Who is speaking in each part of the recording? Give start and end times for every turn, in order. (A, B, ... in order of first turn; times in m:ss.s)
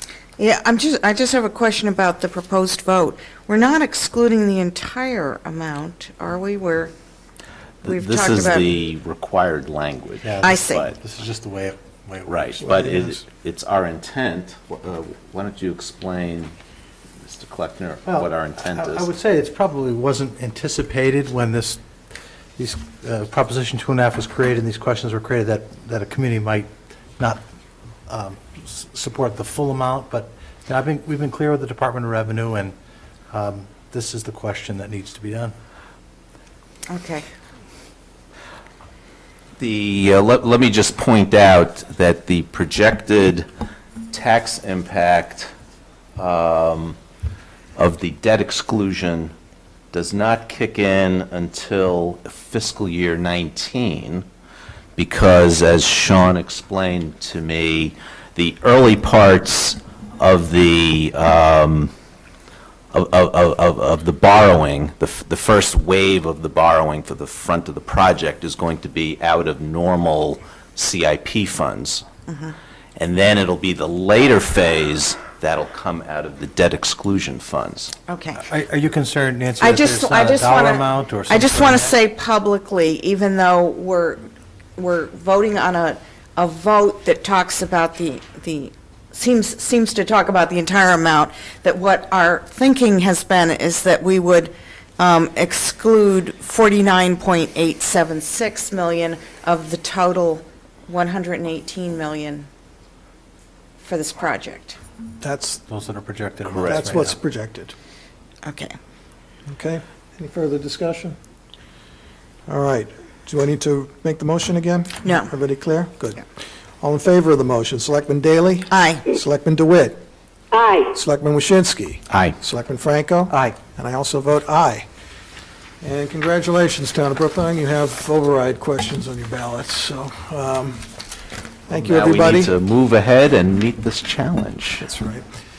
0:00.4-0:06.9 A
0:07.8-0:08.7 A
0:07.8-0:11.0 B
0:10.2-0:12.6 C
0:10.4-0:10.9 A
0:12.2-0:16.5 B
0:12.7-0:13.2 D
0:17.2-0:19.1 B
0:18.0-0:21.8 C
0:22.6-0:27.4 C
0:28.1-0:32.7 C
0:33.3-0:35.5 C
0:36.9-0:37.2 A
0:39.6-0:43.5 B
0:44.1-0:45.5 B
0:46.2-0:47.0 B
0:47.8-0:49.3 B
0:49.9-0:54.2 B
0:55.0-1:01.9 B
1:02.9-1:12.0 B
1:12.3-1:12.5 A
1:13.0-1:17.9 B
1:18.1-1:18.4 A
1:18.4-1:21.9 C
1:19.6-1:24.2 A
1:24.8-1:42.5 A
1:43.8-1:44.8 A
1:45.2-1:45.6 D
1:45.7-1:47.2 C
1:46.4-1:47.7 D
1:46.6-1:46.9 B
1:48.4-1:48.7 A
1:49.5-1:51.2 D
1:52.5-1:56.2 D
1:55.0-1:55.3 A
1:56.8-2:00.0 D
1:58.7-1:59.1 A
2:00.9-2:04.8 D
2:02.1-2:02.4 B
2:03.3-2:03.6 C
2:05.8-2:10.8 D
2:11.7-2:12.5 D
2:11.7-2:14.8 B
2:14.8-2:15.2 D